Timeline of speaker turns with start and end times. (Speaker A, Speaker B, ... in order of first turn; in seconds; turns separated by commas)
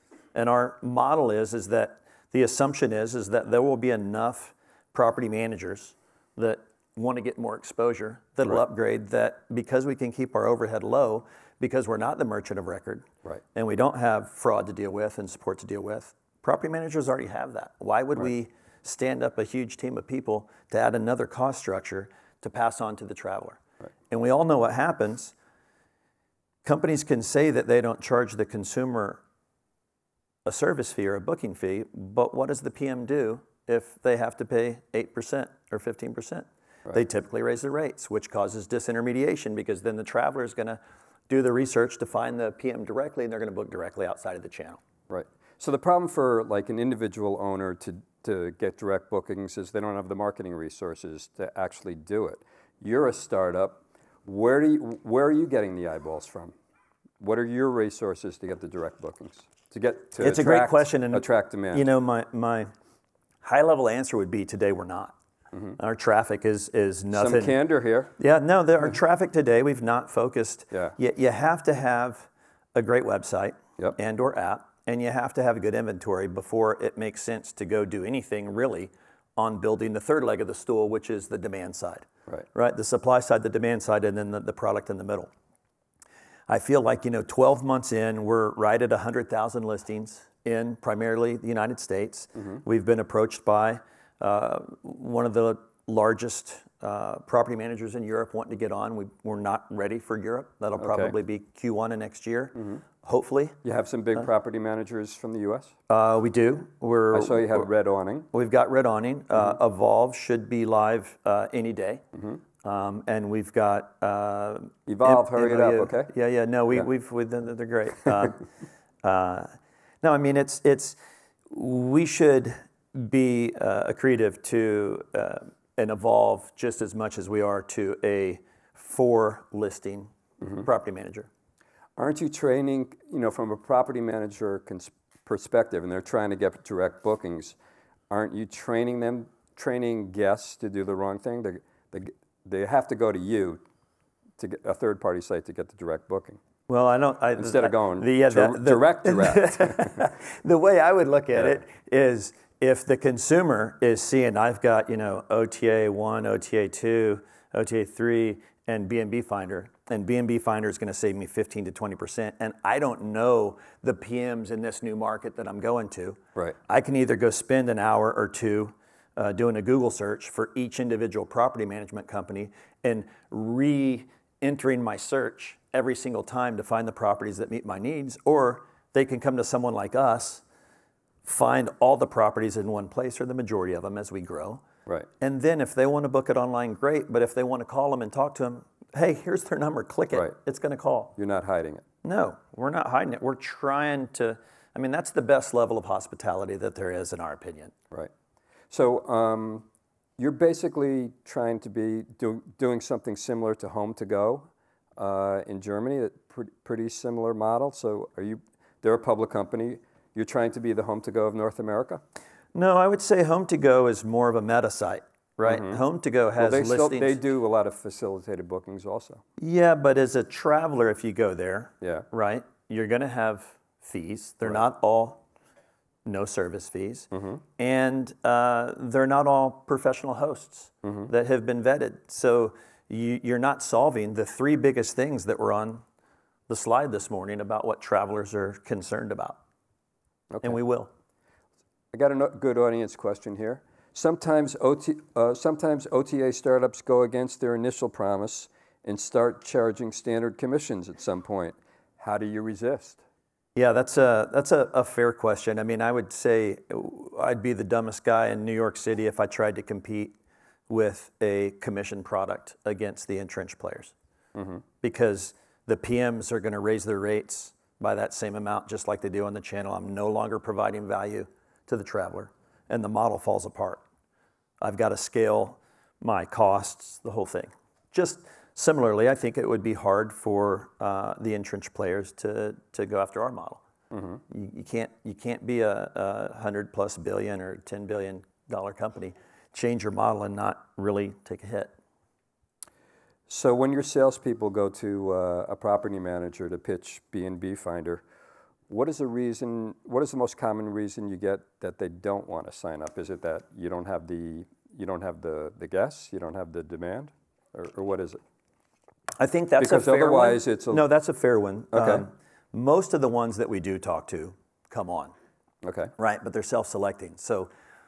Speaker A: 0.3-25.3, Speaker A: 26.6-29.2, Speaker A: 30.4-44.8, Speaker B: 45.1-56.5, Speaker B: 57.2-61.9, Speaker A: 60.2-62.7, Speaker A: 63.4-65.2, Speaker A: 65.8-67.6, Speaker B: 67.1-68.1, Speaker A: 68.2-85.3, Speaker A: 86.5-103.6, Speaker B: 100.8-101.2, Speaker B: 103.6-105.7, Speaker A: 105.9-107.7, Speaker B: 107.1-108.3, Speaker A: 108.3-112.0, Speaker B: 112.2-112.4, Speaker A: 112.6-118.5, Speaker B: 114.9-116.1, Speaker A: 119.0-119.5, Speaker A: 120.0-121.0, Speaker A: 121.5-131.3, Speaker B: 132.0-137.6, Speaker B: 138.1-143.6, Speaker B: 144.4-146.4, Speaker A: 146.7-180.4, Speaker B: 147.4-150.1, Speaker A: 181.2-184.6, Speaker A: 185.2-191.1, Speaker B: 191.2-191.8, Speaker A: 192.0-197.7, Speaker B: 198.7-199.7, Speaker B: 200.2-212.0, Speaker A: 212.5-217.2, Speaker B: 215.4-215.8, Speaker B: 216.4-219.2, Speaker A: 219.4-225.2, Speaker A: 226.1-235.8, Speaker B: 227.1-227.4, Speaker B: 230.8-231.1, Speaker A: 236.5-239.4, Speaker B: 240.3-240.6, Speaker A: 240.4-240.9, Speaker B: 241.9-253.0, Speaker A: 253.6-260.1, Speaker A: 260.7-263.9, Speaker B: 264.4-264.6, Speaker A: 264.8-273.8, Speaker A: 274.6-283.6, Speaker B: 283.9-284.2, Speaker A: 284.3-291.7, Speaker B: 293.3-298.0, Speaker B: 298.7-308.2, Speaker A: 309.2-315.1, Speaker B: 309.6-310.9, Speaker B: 311.7-312.1, Speaker B: 315.6-315.9, Speaker A: 316.0-317.5